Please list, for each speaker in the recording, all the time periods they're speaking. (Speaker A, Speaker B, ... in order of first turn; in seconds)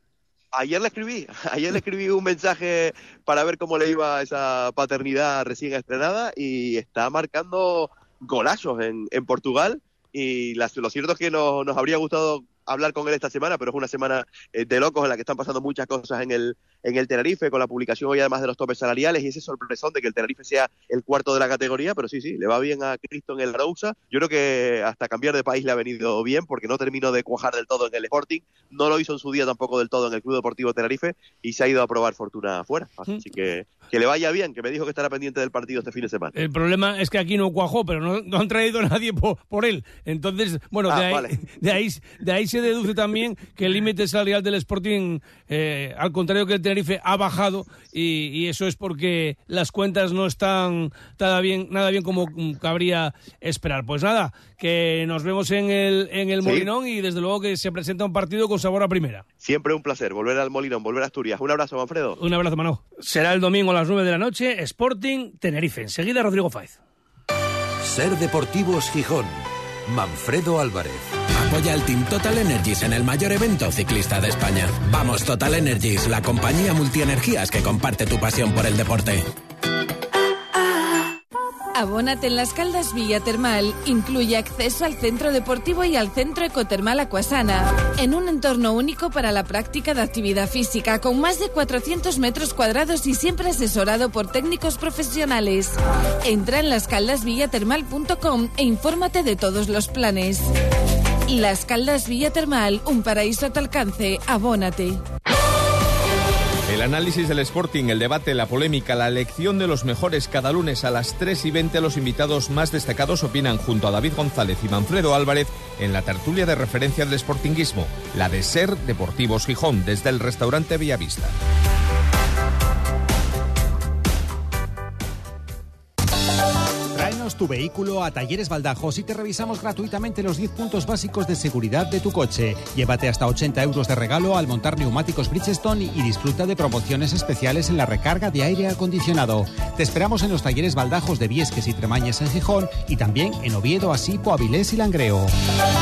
Speaker A: 0.5-36.3, 40.9-41.4, 59.4-62.2
Speaker B: 36.3-59.2, 62.2-66.8
Speaker C: 67.8-71.1
Speaker D: 71.4-79.2
Speaker E: 81.8-100.5, 101.3-105.0
Speaker F: 106.7-121.3
Speaker G: 126.9-145.3